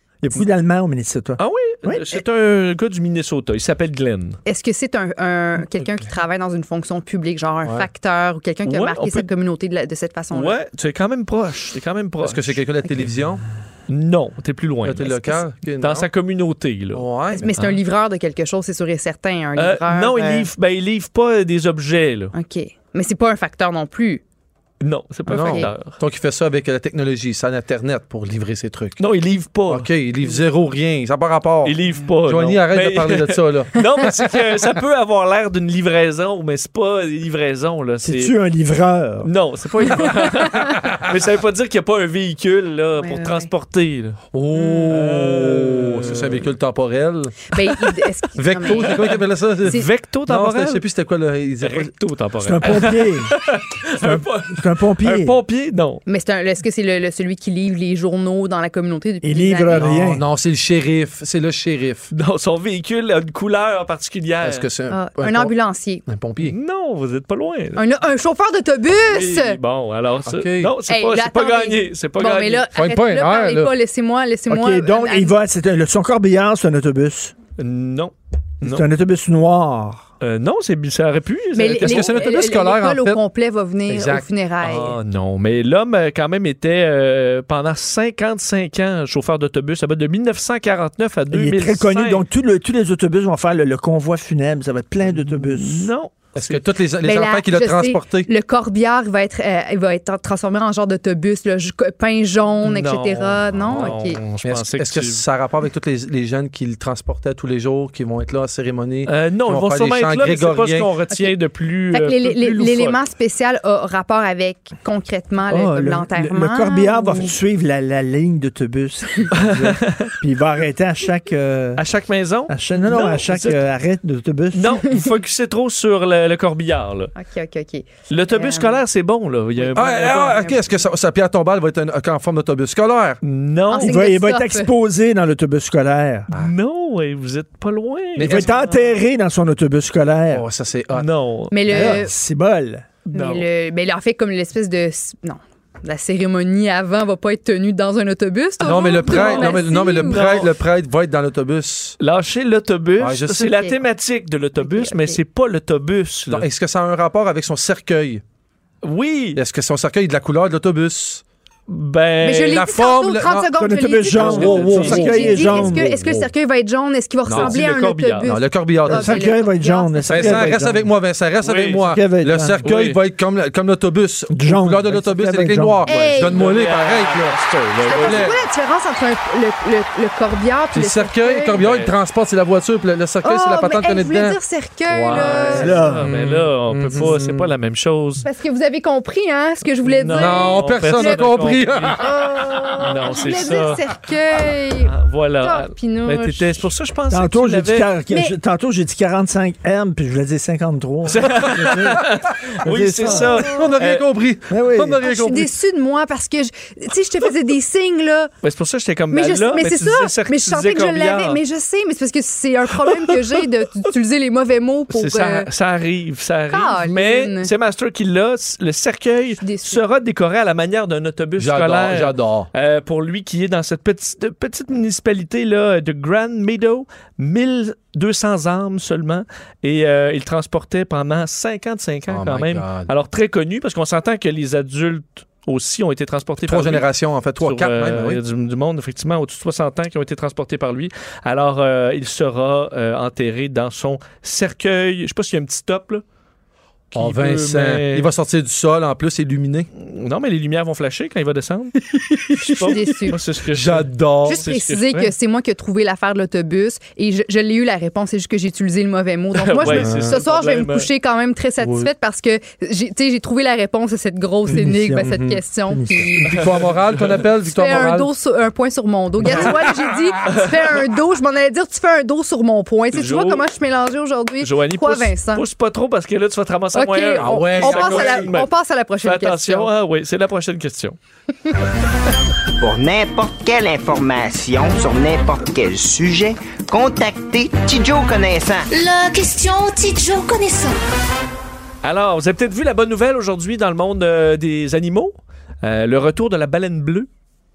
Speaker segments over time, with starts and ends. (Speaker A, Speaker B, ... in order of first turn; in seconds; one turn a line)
Speaker A: 0.2-2.2
Speaker B: 1.4-4.4
Speaker C: 4.5-10.6
Speaker B: 8.7-9.3
Speaker B: 10.3-12.6
Speaker D: 12.2-13.4
Speaker C: 12.8-13.1
Speaker B: 13.9-17.8
Speaker D: 14.8-16.1
Speaker D: 16.9-17.6
Speaker C: 17.3-20.5
Speaker B: 19.6-22.3
Speaker C: 22.3-24.2
Speaker B: 24.8-26.0
Speaker D: 25.3-29.0
Speaker C: 25.3-25.7
Speaker B: 29.0-29.9
Speaker D: 29.7-34.4
Speaker B: 31.6-38.3
Speaker A: 38.0-39.3
Speaker B: 39.2-44.2
Speaker C: 43.0-43.5
Speaker D: 44.3-47.5
Speaker C: 44.6-45.0
Speaker B: 44.9-46.5
Speaker C: 47.5-49.9
Speaker D: 48.4-51.9
Speaker B: 49.6-50.8
Speaker B: 51.6-56.0
Speaker A: 52.4-53.3
Speaker A: 53.9-55.4
Speaker C: 56.1-59.9
Speaker A: 59.2-60.2
Speaker D: 59.7-62.1
Speaker B: 62.1-64.7
Speaker D: 64.4-65.5
Speaker C: 64.9-66.0
Speaker D: 66.0-66.5
Speaker B: 66.4-67.8
Speaker C: 67.8-69.6
Speaker B: 69.1-72.7
Speaker D: 70.3-70.7
Speaker C: 70.9-75.3
Speaker D: 72.7-73.7
Speaker A: 74.5-77.3
Speaker B: 77.6-78.9
Speaker A: 78.6-80.1
Speaker B: 80.2-82.2
Speaker C: 81.6-85.0
Speaker D: 81.8-83.2
Speaker D: 83.9-84.3
Speaker B: 84.6-92.2
Speaker A: 91.3-95.9
Speaker B: 95.0-96.6
Speaker D: 96.3-98.3
Speaker C: 97.0-104.2
Speaker B: 102.6-105.2
Speaker D: 103.5-110.9
Speaker B: 109.1-113.0
Speaker C: 111.9-117.3
Speaker A: 115.5-121.8
Speaker B: 119.3-120.1
Speaker B: 121.8-123.6
Speaker A: 122.5-124.9
Speaker B: 124.5-127.1
Speaker C: 127.2-128.8
Speaker B: 128.1-130.4
Speaker C: 129.6-130.8
Speaker D: 129.8-133.2
Speaker B: 133.2-133.9
Speaker C: 133.7-134.7
Speaker A: 133.8-136.3
Speaker B: 136.3-138.5
Speaker D: 138.2-138.5
Speaker A: 138.2-140.5
Speaker D: 140.3-141.1
Speaker B: 140.9-142.0
Speaker C: 141.5-142.1
Speaker A: 141.7-142.9
Speaker B: 143.1-143.5
Speaker C: 143.1-150.4
Speaker D: 148.6-152.0
Speaker B: 149.1-150.5
Speaker B: 152.0-156.5
Speaker D: 153.0-153.5
Speaker C: 153.4-153.8
Speaker C: 154.6-155.2
Speaker D: 156.3-158.2
Speaker B: 158.8-159.4
Speaker D: 159.4-161.2
Speaker B: 161.7-162.6
Speaker C: 162.2-170.5
Speaker D: 162.5-163.5
Speaker A: 163.6-166.0
Speaker D: 164.1-166.3
Speaker B: 164.2-165.7
Speaker D: 167.3-167.6
Speaker B: 167.3-168.3
Speaker D: 168.2-169.3
Speaker A: 168.9-170.9
Speaker D: 170.1-178.4
Speaker B: 171.4-171.8
Speaker A: 171.8-172.6
Speaker B: 172.6-173.0
Speaker A: 174.3-175.8
Speaker C: 175.9-176.5
Speaker B: 175.9-178.3
Speaker C: 177.9-181.6
Speaker D: 180.7-184.4
Speaker B: 181.6-181.9
Speaker C: 183.2-185.7
Speaker D: 184.9-187.5
Speaker B: 185.1-188.3
Speaker A: 185.5-186.1
Speaker C: 188.2-191.4
Speaker B: 189.8-192.0
Speaker D: 190.1-192.1
Speaker C: 192.0-196.7
Speaker B: 192.8-193.8
Speaker B: 194.9-197.9
Speaker A: 197.1-202.1
Speaker C: 198.1-198.4
Speaker B: 201.1-204.0
Speaker A: 202.6-203.5
Speaker D: 203.1-205.5
Speaker A: 204.5-205.0
Speaker C: 205.0-208.3
Speaker B: 208.4-211.4
Speaker C: 209.1-215.5
Speaker B: 214.9-236.9
Speaker C: 216.5-217.5
Speaker C: 219.4-219.8
Speaker D: 221.4-222.5
Speaker D: 232.1-232.9
Speaker D: 236.4-238.2
Speaker B: 237.4-246.0
Speaker B: 246.9-248.1
Speaker D: 246.9-249.7
Speaker B: 249.7-255.1
Speaker C: 252.6-253.2
Speaker D: 253.5-254.5
Speaker C: 254.2-266.4
Speaker B: 259.4-260.9
Speaker D: 259.6-260.1
Speaker D: 261.6-261.9
Speaker A: 264.5-266.2
Speaker D: 265.0-265.4
Speaker D: 266.2-268.1
Speaker B: 266.4-267.2
Speaker C: 267.4-275.4
Speaker D: 269.2-269.7
Speaker B: 272.9-273.4
Speaker B: 274.4-278.5
Speaker C: 276.8-279.7
Speaker D: 277.2-278.3
Speaker B: 279.0-281.0
Speaker E: 282.6-288.7
Speaker F: 288.7-290.8
Speaker B: 291.8-297.1